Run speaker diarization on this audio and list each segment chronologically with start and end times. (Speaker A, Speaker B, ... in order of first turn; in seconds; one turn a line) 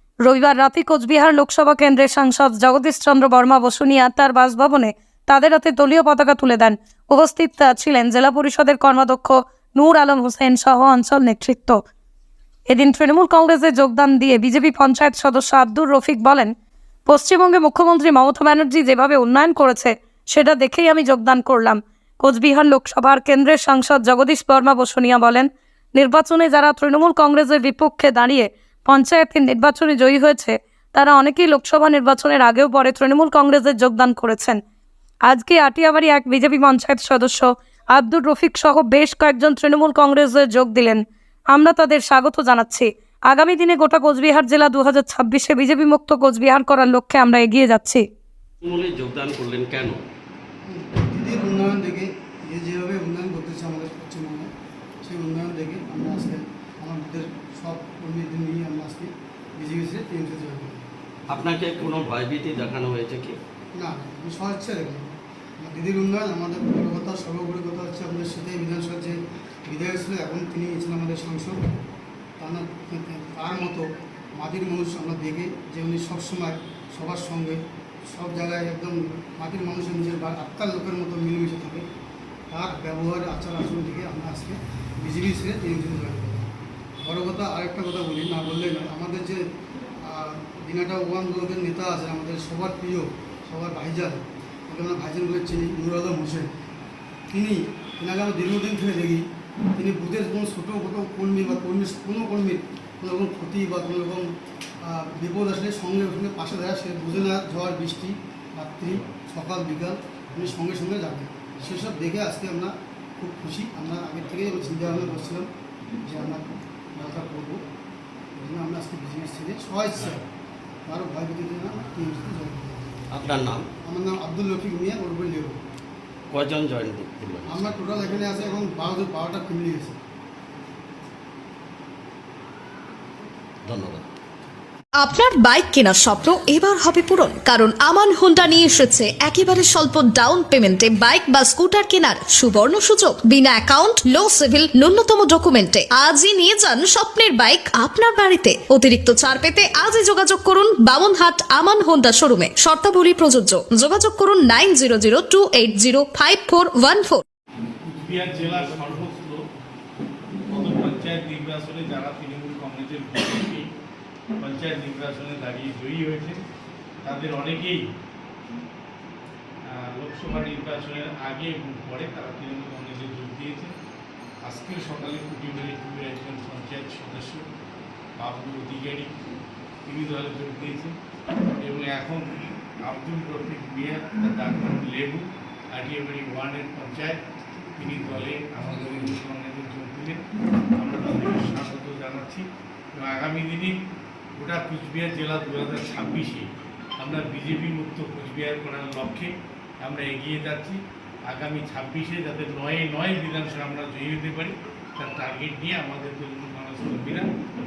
Speaker A: 0.2-11.8
Speaker A: 12.7-16.5
Speaker A: 17.1-34.6
Speaker A: 35.3-48.0
Speaker B: 48.6-50.0
Speaker C: 50.7-54.5
Speaker C: 55.0-60.8
Speaker B: 61.3-63.4
Speaker C: 63.7-71.6
Speaker C: 72.4-81.8
Speaker C: 82.5-86.5
Speaker C: 87.0-89.5
Speaker C: 90.0-96.5
Speaker C: 97.3-99.2
Speaker C: 99.8-104.3
Speaker C: 104.8-115.5
Speaker C: 116.0-117.6
Speaker C: 118.4-120.2
Speaker C: 120.8-123.3
Speaker B: 123.1-123.7
Speaker C: 123.8-125.6
Speaker B: 126.3-128.6
Speaker C: 127.4-130.0
Speaker B: 133.7-134.1
Speaker D: 135.0-157.2
Speaker E: 157.8-159.4
Speaker E: 160.5-163.6
Speaker E: 164.4-166.4
Speaker E: 167.0-167.8
Speaker E: 169.7-173.7
Speaker E: 174.4-177.4
Speaker E: 178.2-179.1
Speaker E: 179.9-180.9
Speaker E: 181.6-182.2
Speaker E: 182.8-187.2
Speaker E: 187.8-190.2
Speaker E: 190.8-192.4
Speaker E: 193.0-193.7
Speaker E: 194.4-196.4
Speaker E: 197.0-199.3
Speaker E: 199.8-200.8
Speaker E: 201.3-207.3